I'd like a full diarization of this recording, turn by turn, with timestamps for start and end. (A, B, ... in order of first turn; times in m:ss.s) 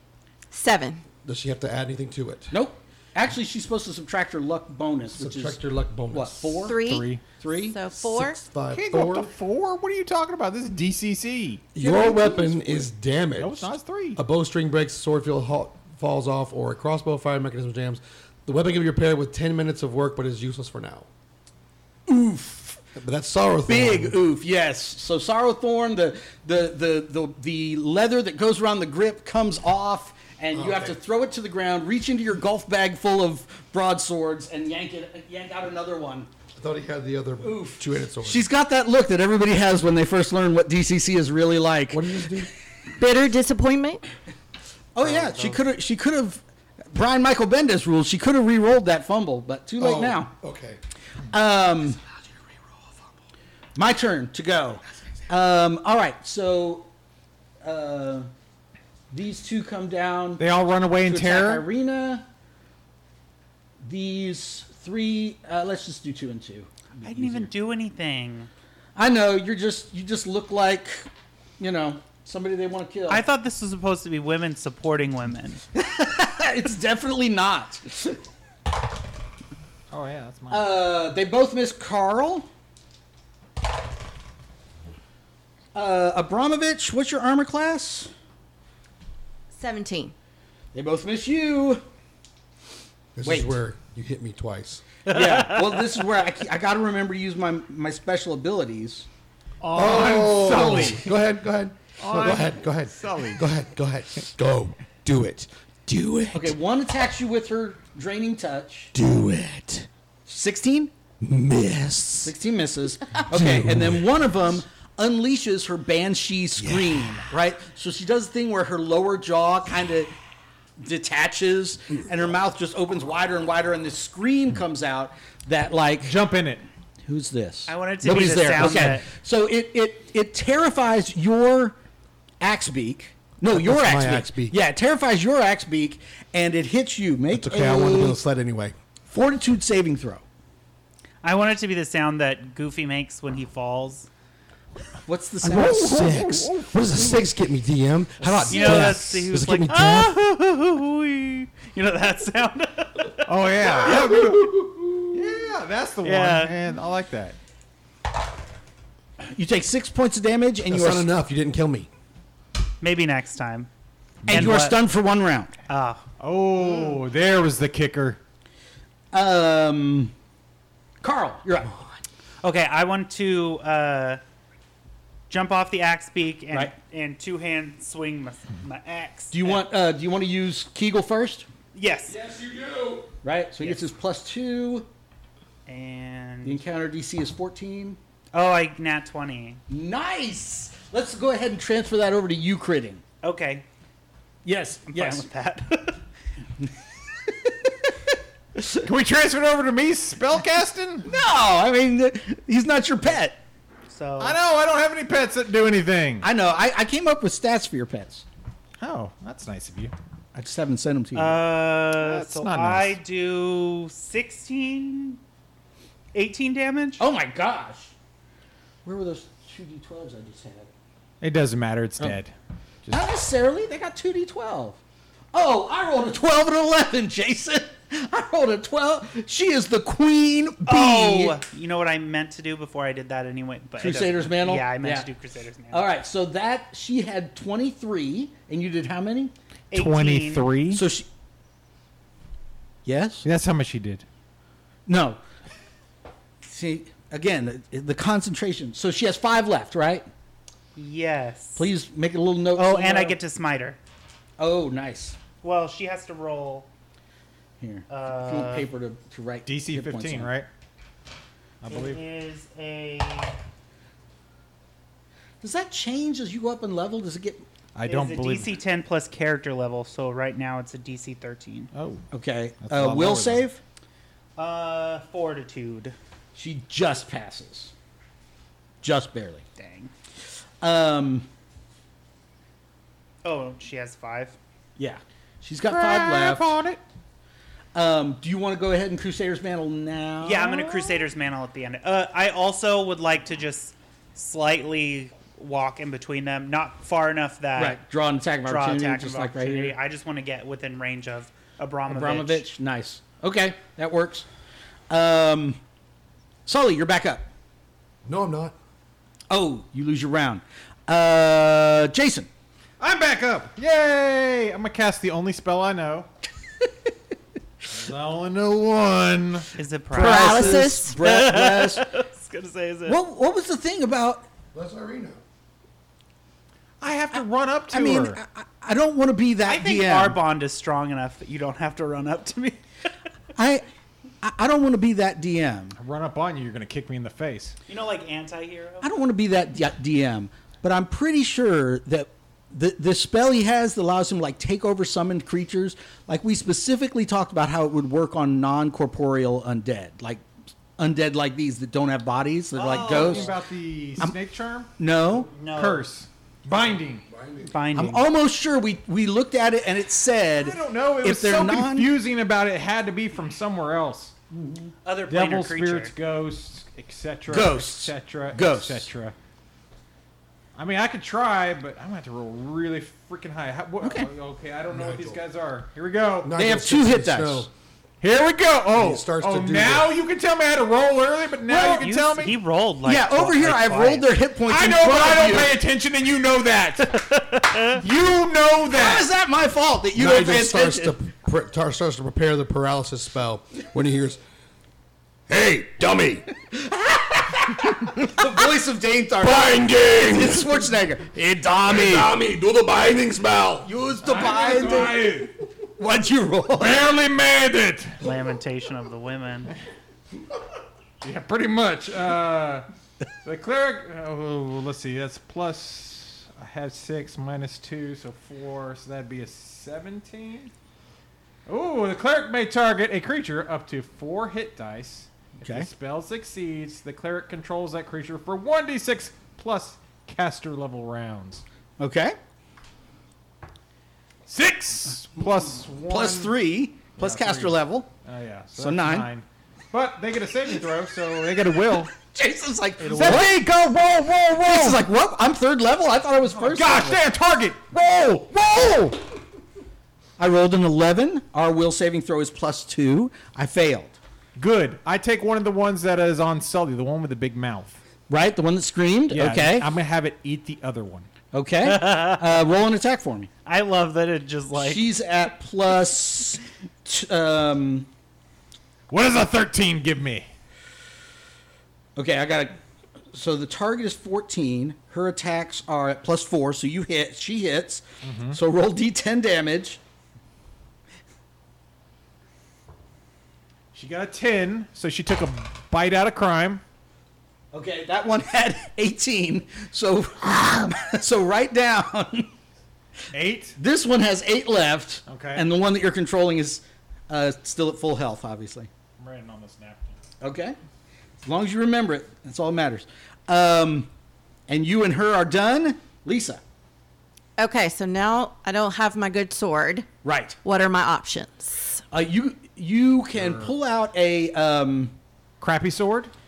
0:00.5-0:01.0 A
0:01.2-0:02.5 B
0:02.5-0:06.8 C
0:05.1-0:06.7 B
0:06.6-0:08.4 A
0:06.8-0:07.2 D
0:07.4-0:07.8 C
0:07.9-0:09.3 B
0:08.7-0:11.7 D
0:11.8-0:21.1 B
0:11.8-0:12.6 A
0:13.4-0:14.2 D
0:22.1-0:22.8 C
0:23.0-0:24.2 B
0:23.7-0:36.3 C
0:30.5-0:31.0 B
0:36.5-0:38.5 B
0:37.4-0:42.5 C
0:41.9-0:42.5 B
0:43.0-0:44.0 A
0:44.9-0:50.3 C
0:45.0-0:45.6 B
0:49.8-0:50.8 B
0:51.3-0:52.0 C
0:53.8-0:56.9 C
0:57.6-0:58.3 C
0:59.1-1:00.4 C
1:00.4-1:01.6 D
1:01.0-1:02.3 C
1:03.8-1:07.5 C
1:07.0-1:08.5 E
1:09.0-1:11.1 C
1:11.6-1:13.2 C
1:13.1-1:15.6 E
1:15.7-1:18.2 C
1:19.9-1:20.7 D
1:20.5-1:22.5 C
1:25.7-1:28.1 C
1:29.5-1:30.1 A
1:30.7-1:31.8 C
1:33.2-1:34.8 B
1:33.2-1:33.6 C
1:35.1-1:39.1 C
1:35.1-1:36.0 E
1:39.6-1:41.1 D
1:39.7-1:46.6 B
1:42.0-1:43.5 D
1:46.3-1:48.9 C
1:48.9-1:49.9 B
1:50.3-1:50.9 C
1:51.2-1:52.3 B
1:52.2-2:00.1 C
1:53.2-1:54.2 B
1:56.6-1:57.2 B
2:00.8-2:06.2 C
2:06.0-2:06.6 D
2:07.0-2:11.8 C
2:07.7-2:09.1 E
2:12.4-2:18.2 C
2:13.5-2:14.6 B
2:17.3-2:18.8 B
2:19.1-2:20.2 C
2:21.2-2:24.1 E
2:25.1-2:26.5 C
2:25.4-2:30.2 B
2:28.2-2:28.9 C
2:28.5-2:33.4 E
2:33.2-2:37.4 D
2:33.6-2:35.3 B
2:36.0-2:36.6 E
2:39.2-2:41.1 C
2:40.7-2:41.9 B
2:42.8-2:43.7 E
2:44.2-2:44.5 D
2:44.3-2:44.8 E
2:44.3-2:45.5 C
2:45.7-2:46.0 E
2:46.2-2:48.2 D
2:49.1-2:50.1 C
2:51.0-2:51.7 C
2:52.4-2:54.2 E
2:55.3-2:59.6 E
2:59.3-3:01.5 C
3:01.7-3:02.2 E
3:02.1-3:03.1 B
3:03.2-3:04.9 C
3:03.6-3:03.9 E
3:05.7-3:06.6 E
3:06.4-3:08.0 C
3:08.3-3:09.6 E
3:09.7-3:13.0 C
3:13.2-3:13.6 E
3:14.4-3:15.3 C
3:14.9-3:16.0 E
3:17.3-3:17.9 C
3:18.8-3:21.1 D
3:21.0-3:23.4 C
3:23.9-3:24.4 E
3:24.2-3:26.3 D
3:26.2-3:28.3 C
3:28.8-3:29.9 D
3:30.4-3:31.4 C
3:31.2-3:35.2 E
3:31.9-3:33.0 D
3:36.1-3:37.0 E
3:37.0-3:37.9 C
3:38.8-3:40.7 C
3:41.2-3:42.3 D
3:42.9-3:44.8 C
3:45.3-3:51.4 C
3:50.6-3:55.9 E
3:53.8-3:55.1 C
3:55.7-3:59.3 C
3:59.7-4:00.5 E
3:59.7-4:00.8 D
4:00.7-4:01.1 C
4:02.8-4:03.3 C
4:03.2-4:04.0 D
4:04.9-4:05.2 C
4:06.4-4:10.1 C
4:10.8-4:11.7 E
4:11.6-4:13.2 C
4:12.5-4:13.8 E
4:14.4-4:15.2 C
4:15.4-4:16.7 E
4:17.6-4:20.3 C
4:17.9-4:18.7 E
4:19.5-4:20.5 D
4:21.6-4:22.0 D
4:21.7-4:23.4 E
4:25.4-4:27.5 C
4:27.8-4:28.6 D
4:27.8-4:31.7 E
4:31.7-4:32.1 D
4:32.1-4:33.6 C
4:32.6-4:33.4 D
4:34.4-4:36.0 E
4:36.4-4:37.7 C
4:38.8-4:39.5 C
4:39.6-4:39.9 E
4:40.6-4:41.3 C
4:43.2-4:44.4 E
4:44.8-4:46.5 C
4:45.7-4:46.8 D
4:47.8-4:50.6 C
4:50.2-4:57.8 E
4:57.6-4:59.8 C
4:58.4-5:02.5 E
5:01.9-5:04.3 C
5:04.9-5:05.6 C
5:06.5-5:07.3 C
5:08.1-5:08.6 B
5:09.3-5:12.3 C
5:12.8-5:16.1 D
5:17.7-5:19.5 D
5:19.6-5:23.0 E
5:19.9-5:21.9 C
5:19.9-5:21.0 A
5:22.9-5:24.3 C
5:24.5-5:25.2 B
5:26.8-5:28.2 D
5:27.7-5:30.2 C
5:29.4-5:32.6 E
5:33.4-5:33.6 C
5:34.2-5:35.8 C
5:35.8-5:37.6 D
5:37.7-5:38.9 E
5:38.8-5:50.2 C
5:50.8-5:53.4 C
5:52.6-5:53.4 E
5:52.6-5:54.7 D
5:54.8-5:55.3 C
5:55.2-5:55.9 E
5:55.5-5:57.0 D
5:57.1-5:57.6 B
5:57.4-5:58.1 E
5:57.7-6:01.9 C
6:00.4-6:04.2 D
6:04.3-6:04.7 C
6:04.8-6:05.9 E
6:05.1-6:09.2 D
6:07.3-6:08.9 C
6:10.6-6:16.4 D
6:13.8-6:14.1 C
6:14.7-6:15.2 B
6:16.2-6:17.5 B
6:16.4-6:17.5 C
6:18.0-6:22.4 D
6:18.7-6:20.0 B
6:21.5-6:21.9 C
6:21.7-6:24.2 E
6:22.8-6:25.6 C
6:24.5-6:29.1 D
6:26.9-6:27.8 E
6:28.7-6:31.0 C
6:30.0-6:34.2 B
6:35.3-6:36.3 B
6:36.5-6:42.1 C
6:39.2-6:40.7 B
6:41.5-6:43.7 B
6:43.6-6:46.9 C
6:44.0-6:45.3 D
6:46.6-6:48.0 D
6:48.0-6:49.5 E
6:51.0-6:52.7 D
6:53.2-7:00.5 D
7:01.5-7:11.4 D
7:05.4-7:05.7 C
7:11.8-7:12.2 C
7:14.3-7:16.4 D
7:15.9-7:17.9 C
7:17.0-7:22.0 D
7:18.6-7:19.1 C
7:22.1-7:23.4 C
7:22.8-7:24.8 D
7:24.4-7:27.0 C
7:26.3-7:29.0 D
7:30.2-7:34.0 C
7:34.4-7:37.8 D
7:38.1-7:39.7 C
7:39.1-7:41.1 D
7:41.3-7:43.3 C
7:41.6-7:42.5 E
7:43.5-7:44.8 E
7:44.6-7:47.9 C
7:48.9-7:50.3 D
7:52.0-7:52.6 C
7:53.1-7:59.8 C
7:58.0-7:58.4 D
8:03.7-8:06.6 D
8:07.5-8:12.3 C
8:13.1-8:13.6 D
8:13.6-8:18.7 C
8:15.1-8:15.5 D
8:19.0-8:20.0 D
8:20.2-8:20.6 C
8:21.2-8:23.9 C
8:24.5-8:26.4 C
8:27.4-8:29.9 A
8:30.0-8:30.4 C
8:30.4-8:31.8 A
8:31.9-8:35.0 C
8:33.1-8:33.5 D
8:35.4-8:36.1 D